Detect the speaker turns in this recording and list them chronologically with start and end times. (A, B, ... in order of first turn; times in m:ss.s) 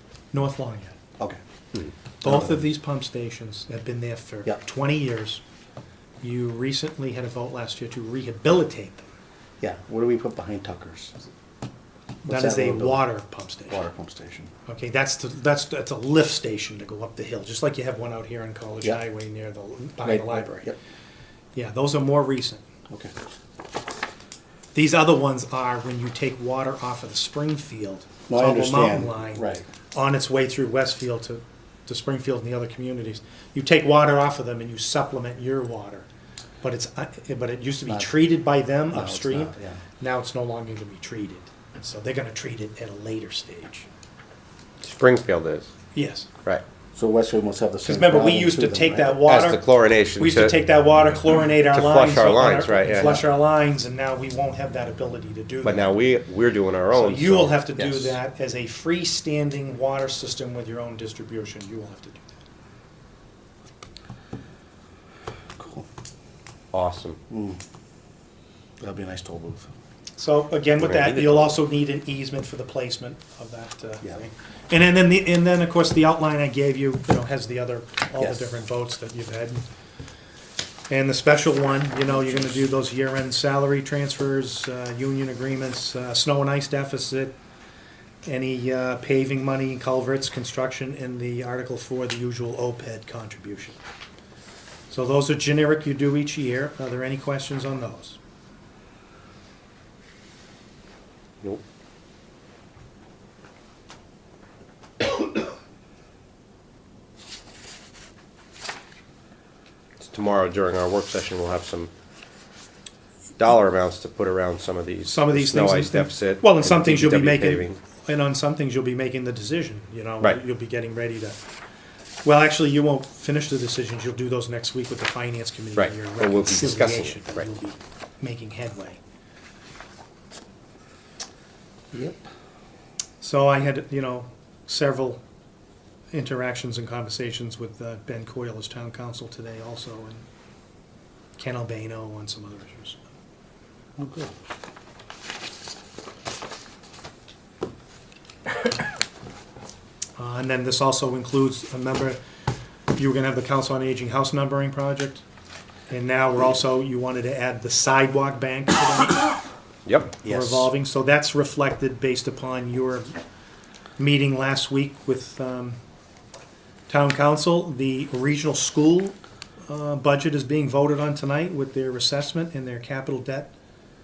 0:00.3-0:01.0 A
0:02.2-0:05.4 A
0:02.2-0:02.6 B
0:06.2-0:09.0 A
0:09.6-0:11.2 B
0:12.2-0:13.1 B
0:12.3-0:13.8 A
0:13.7-0:14.5 B
0:14.7-0:20.7 A
0:20.0-0:20.8 B
0:21.6-0:22.6 A
0:24.7-0:36.1 A
0:28.3-0:29.7 B
0:36.6-0:43.9 A
0:37.9-0:38.2 B
0:38.9-0:39.8 B
0:44.8-0:45.7 C
0:45.9-0:46.3 A
0:47.0-0:49.2 B
0:47.8-0:49.6 A
0:49.2-0:50.6 C
0:50.2-0:56.0 A
0:51.7-0:53.2 C
0:55.6-0:57.6 C
0:56.9-1:02.3 A
0:57.8-0:58.2 B
1:05.6-1:05.9 B
1:06.7-1:07.2 C
1:07.3-1:07.6 B
1:08.8-1:09.7 B
1:10.2-1:19.6 A
1:10.8-1:11.6 C
1:18.2-1:18.5 B
1:20.9-1:27.4 A
1:28.2-1:33.8 A
1:34.9-1:38.2 A
1:50.0-1:51.9 C
1:53.4-1:57.8 C
1:55.1-2:01.4 A
2:02.2-2:09.0 A
2:05.8-2:07.5 C
2:11.9-2:12.2 B
2:13.2-2:15.2 A
2:16.1-2:20.2 A
2:21.4-2:23.0 A
2:24.0-2:24.3 B
2:30.2-2:32.2 A
2:33.0-2:35.2 A
2:35.9-2:39.4 A
2:39.9-2:40.2 C
2:40.2-2:40.7 B
2:40.2-2:43.1 A
2:44.0-2:45.8 A
2:46.9-2:49.2 A
2:49.7-2:53.5 A